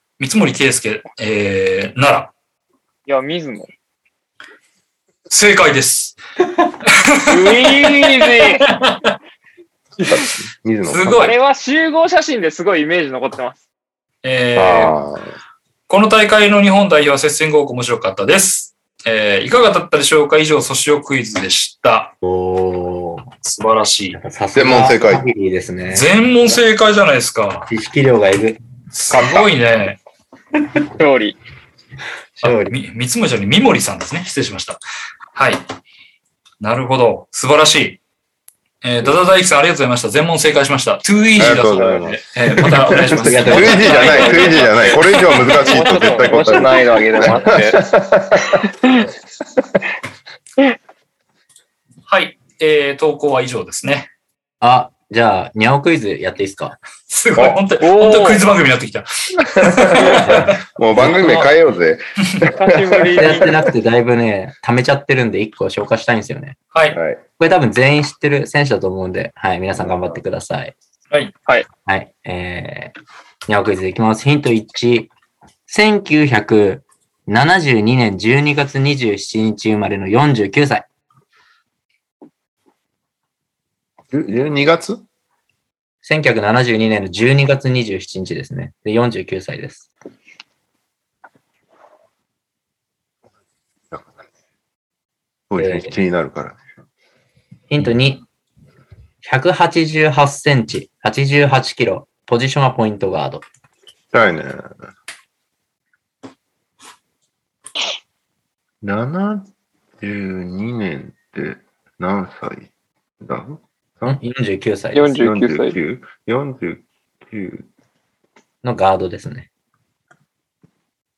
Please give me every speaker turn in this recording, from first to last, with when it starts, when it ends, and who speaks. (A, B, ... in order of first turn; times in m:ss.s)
0:00.2-0:02.3 A
0:03.1-0:03.7 B
0:05.3-0:06.2 A
0:06.9-0:09.1 A
0:07.3-0:08.6 B
0:10.0-0:11.3 C
0:10.8-0:11.4 A
0:11.2-0:13.6 B
0:14.2-0:15.0 A
0:14.6-0:15.3 C
0:15.9-0:22.1 A
0:22.2-0:23.3 D
0:23.4-0:24.2 A
0:24.1-0:26.1 D
0:24.6-0:25.3 C
0:25.9-0:27.7 A
0:27.7-0:28.6 D
0:28.9-0:30.0 A
0:31.0-0:31.4 B
0:32.4-0:32.7 D
0:32.4-0:34.8 A
0:35.4-0:35.6 A
0:36.6-0:38.0 A
0:38.8-0:45.8 A
0:41.4-0:48.6 C
0:43.1-0:44.2 D
0:43.7-0:47.9 B
0:48.5-0:49.0 B
0:52.1-0:54.1 A
0:54.6-0:56.8 D
0:57.1-1:00.4 A
0:57.8-0:58.4 B
0:59.5-1:03.6 C
1:00.2-1:01.3 D
1:02.5-1:03.6 B
1:03.2-1:06.6 D
1:06.9-1:07.2 C
1:07.4-1:10.8 D
1:11.9-1:12.9 D
1:13.5-1:15.1 D
1:15.7-1:20.9 D
1:24.1-1:25.0 C
1:26.0-1:29.9 D
1:35.5-1:36.6 C
1:35.6-1:36.0 D
1:37.7-1:38.2 D
1:39.2-1:43.4 D
1:44.1-1:44.6 C
1:48.8-1:49.5 C
1:50.0-1:54.2 C
1:54.0-1:55.2 D
1:54.9-1:55.8 B
1:55.2-1:57.7 C
1:58.6-1:59.5 D